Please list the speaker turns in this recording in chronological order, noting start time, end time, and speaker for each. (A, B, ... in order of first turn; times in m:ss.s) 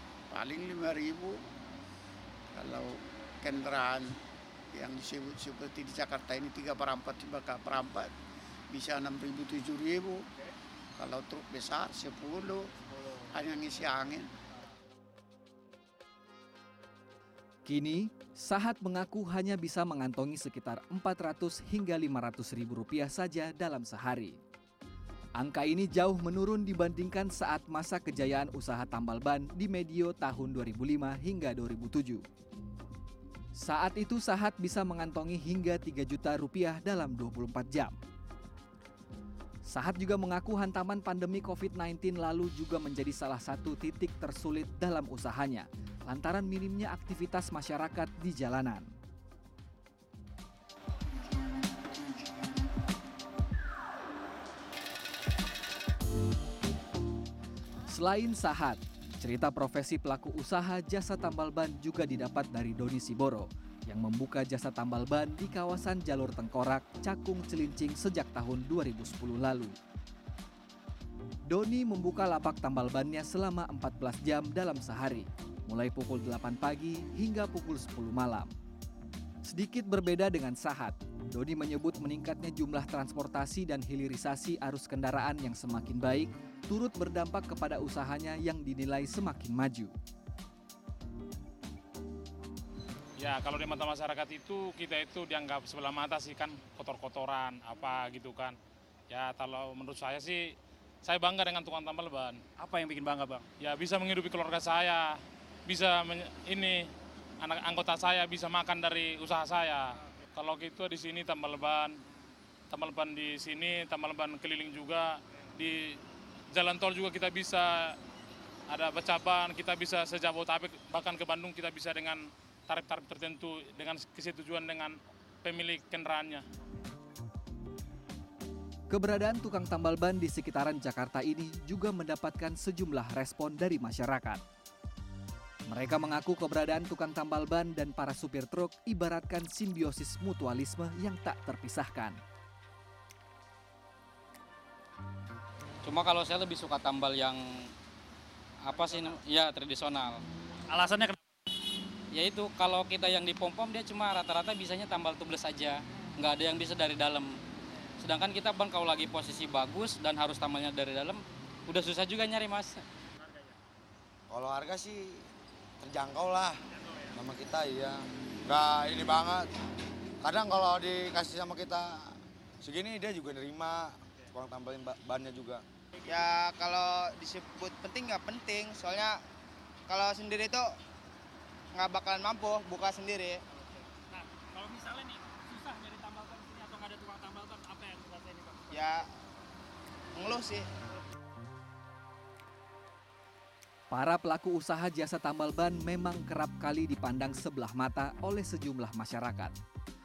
0:00.3-0:01.4 A
0:02.5-0:04.1 A
0:04.7-0:08.1 A
0:08.7-0:10.2 A
0:11.0-0:12.7 A
0:12.9-0:13.3 B
0:13.3-0:14.3 A
0:17.6-0:24.4 C
0:25.4-0:32.2 C
0:33.5-0:38.0 C
0:39.6-0:48.9 C
0:57.9-1:09.8 C
1:11.5-1:18.5 C
1:19.4-1:29.9 C
1:33.2-1:38.6 D
1:39.1-1:42.4 D
1:42.6-1:43.5 B
1:43.6-1:46.9 D
1:47.4-1:52.0 D
1:52.7-1:56.0 D
1:56.5-1:58.0 D
1:58.7-2:06.4 D
2:08.9-2:14.4 C
2:15.7-2:22.2 C
2:25.8-2:27.7 E
2:28.6-2:30.2 E
2:28.7-2:29.2 B
2:30.7-2:31.2 B
2:32.1-2:37.4 E
2:38.0-2:42.8 E
2:44.3-2:45.2 F
2:45.8-2:46.6 F
2:46.8-2:47.0 B
2:47.1-2:49.5 F
2:50.2-2:55.6 F
2:56.0-2:59.2 G
2:59.9-3:00.7 G
3:01.7-3:03.4 G
3:03.6-3:09.0 B
3:08.7-3:09.0 G
3:10.1-3:10.7 G
3:13.9-3:19.6 C